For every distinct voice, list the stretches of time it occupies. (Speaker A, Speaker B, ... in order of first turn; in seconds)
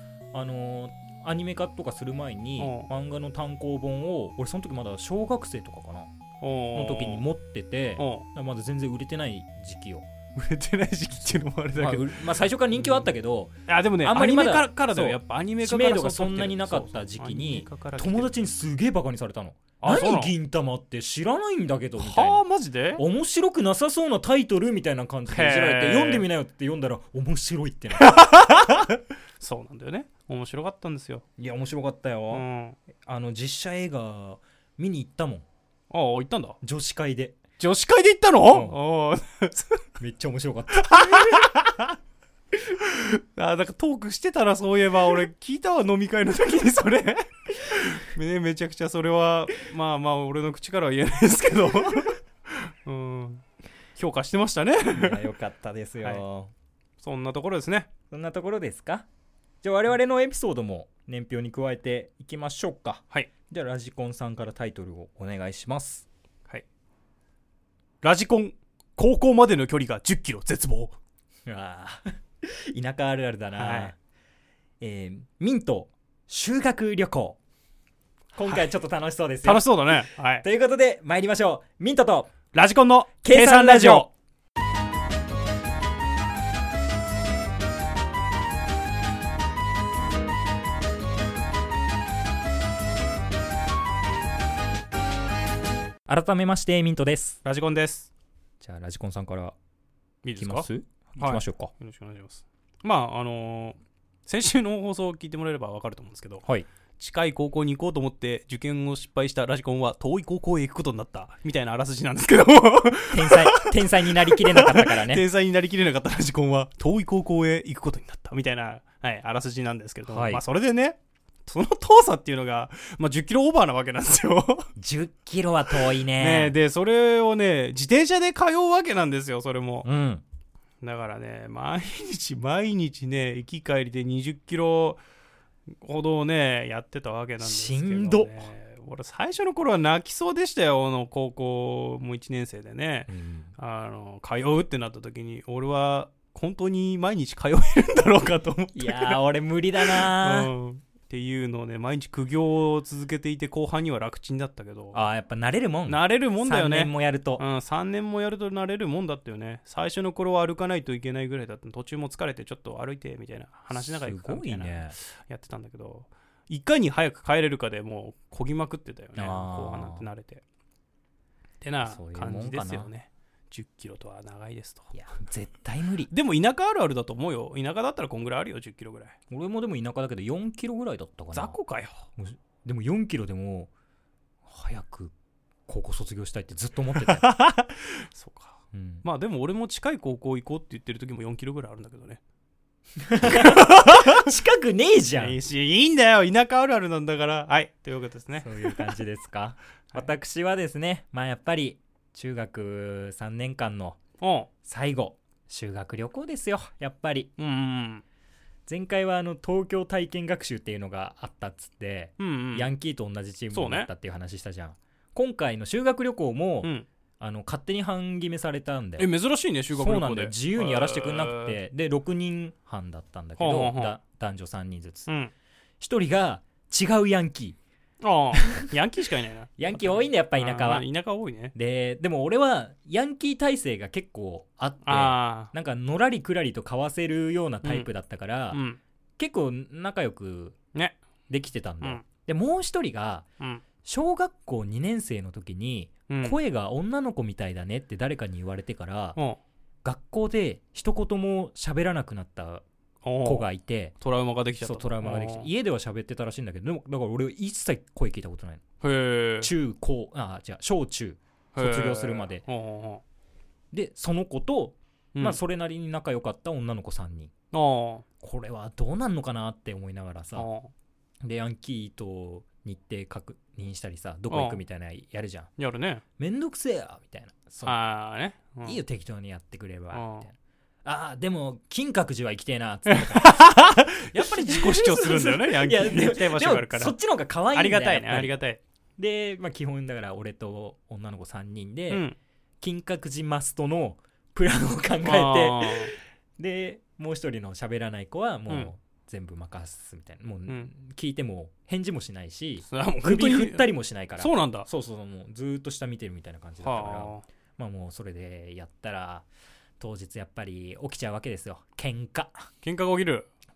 Speaker A: 0.3-6.1, 6.7-10.1, 11.3-22.4, 23.0-28.2, 31.4-32.5, 33.0-35.5, 36.6-37.4, 38.5-38.8, 40.0-41.5, 54.9-56.5, 58.1-59.1, 59.6-66.0, 71.5-74.0, 74.8-77.4, 78.3-82.3, 83.2-84.1, 96.1-97.4, 98.6-99.5, 100.4-101.7, 113.1-115.2, 120.1-120.4, 124.8-126.5, 129.8-130.2, 137.4-138.5, 143.1-143.5, 148.8-150.5, 154.9-157.4, 163.7-165.0, 169.2-170.0, 171.9-172.9, 174.9-176.1, 179.3-183.7, 184.5-185.1, 185.7-187.3, 188.7-189.1, 193.0-195.4, 198.4-204.0, 204.6-207.3, 208.7-219.1, 219.7-225.1, 225.8-227.6, 228.4-228.7, 229.6-230.9, 231.5-238.6, 239.2-240.6, 241.3-243.3, 243.8-249.2, 249.8-252.6, 253.2-254.0, 254.6-258.6, 259.4-262.4, 263.7-267.3, 268.2-270.5, 271.2-275.5, 276.2-277.8, 278.6-283.4, 284.1-288.4, 289.0-292.1, 292.6-309.3, 309.8-312.5
Speaker B: 2.6-2.9, 6.4-7.2, 8.0-8.3, 10.3-13.1, 13.7-18.4, 19.8-20.3, 22.0-23.0, 25.3-26.3, 28.0-31.2, 32.3-32.8, 35.9-36.6, 37.6-39.8, 40.8-42.0, 42.7-53.4, 54.0-55.2, 57.0-57.9, 68.0-71.0, 73.6-73.9, 79.4-80.5, 82.5-84.1, 97.4-98.1, 100.2-106.5, 107.0-124.7, 126.1-129.9, 130.8-135.0, 135.8-149.2, 149.8-155.0, 155.9-170.4, 171.6-174.9, 176.1-179.2, 181.3-182.1, 187.0-192.2, 193.2-194.3, 195.1-198.9, 204.2-204.5, 207.4-208.0, 212.2-212.7, 213.5-213.9, 219.0-221.6, 223.4-224.0, 225.1-225.3, 228.0-231.5, 234.8-235.5, 238.5-238.8, 246.1-246.4, 253.0-253.5, 254.0-255.5, 258.8-259.5, 261.6-263.0, 267.5-268.1, 270.4-270.7, 274.3-274.6, 275.6-276.0, 277.6-278.8, 279.9-280.3, 282.9-286.9, 287.5-288.6, 291.9-292.2, 295.0-295.9, 302.7-304.7, 306.6-307.2, 312.6-313.3